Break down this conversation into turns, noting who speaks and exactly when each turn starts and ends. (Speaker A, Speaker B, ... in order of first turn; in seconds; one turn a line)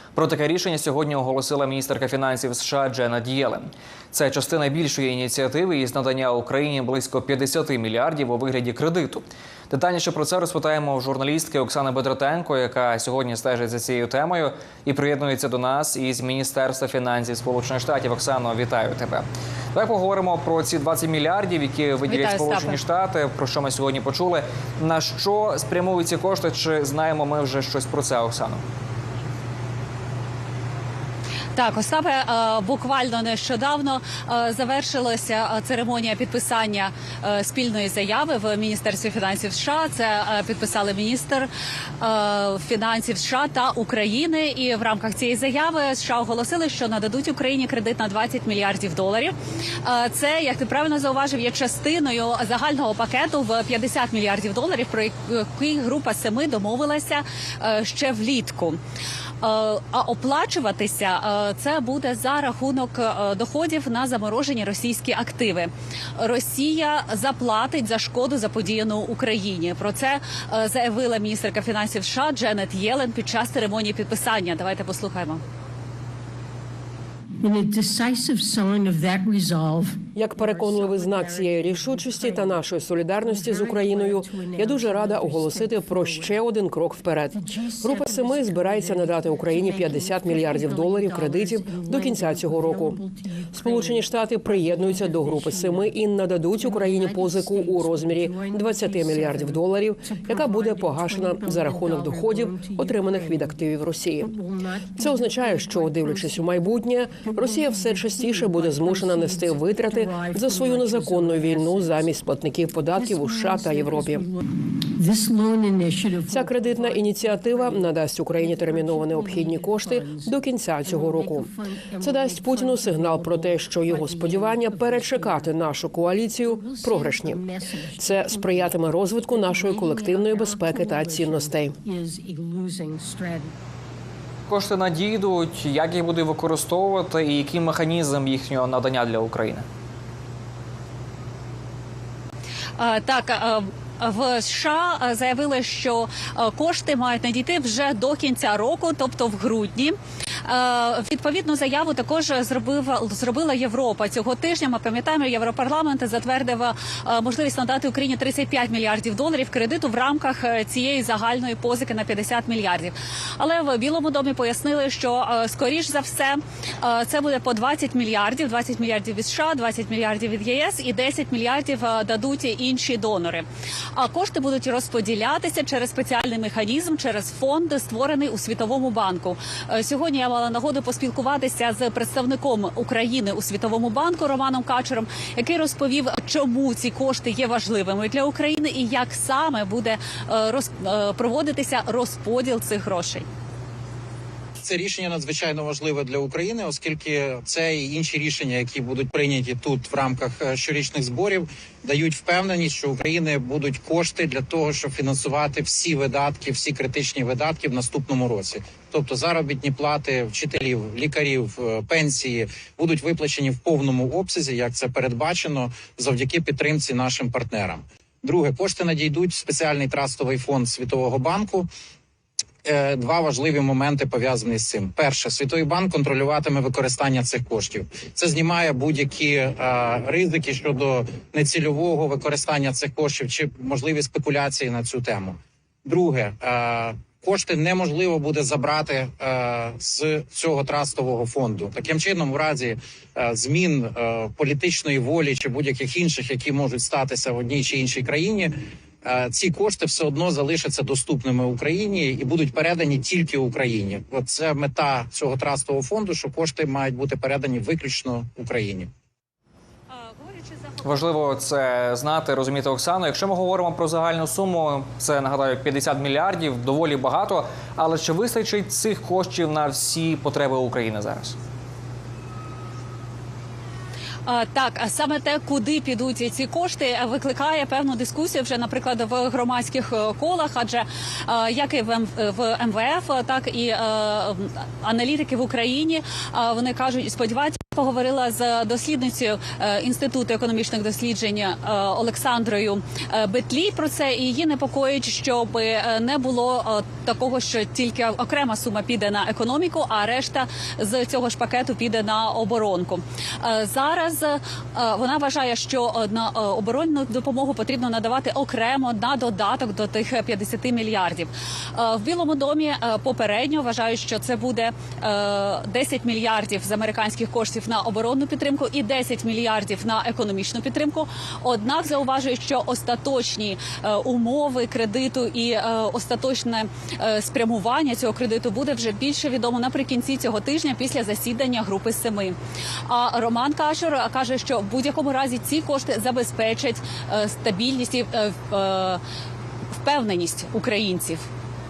Speaker A: 0.1-28.6
Speaker B: 22.1-22.8
Speaker B: 31.6-41.5
Speaker B: 42.0-58.8
Speaker B: 59.4-75.4
Speaker C: 77.4-86.5
Speaker D: 80.2-93.0
Speaker C: 87.3-103.6
Speaker D: 93.5-104.3
Speaker C: 104.2-112.2
Speaker D: 105.0-114.3
Speaker C: 112.8-125.8
Speaker D: 116.3-127.4
Speaker C: 126.3-133.6
Speaker D: 128.0-131.8
Speaker A: 134.5-139.7
Speaker B: 142.8-193.2
Speaker E: 194.6-221.7
Speaker E: 222.7-258.9
Speaker B: 259.9-261.1
Speaker A: 260.8-271.4
Speaker B: 274.3-332.4
Speaker B: 332.9-339.0
Speaker B: 339.8-341.3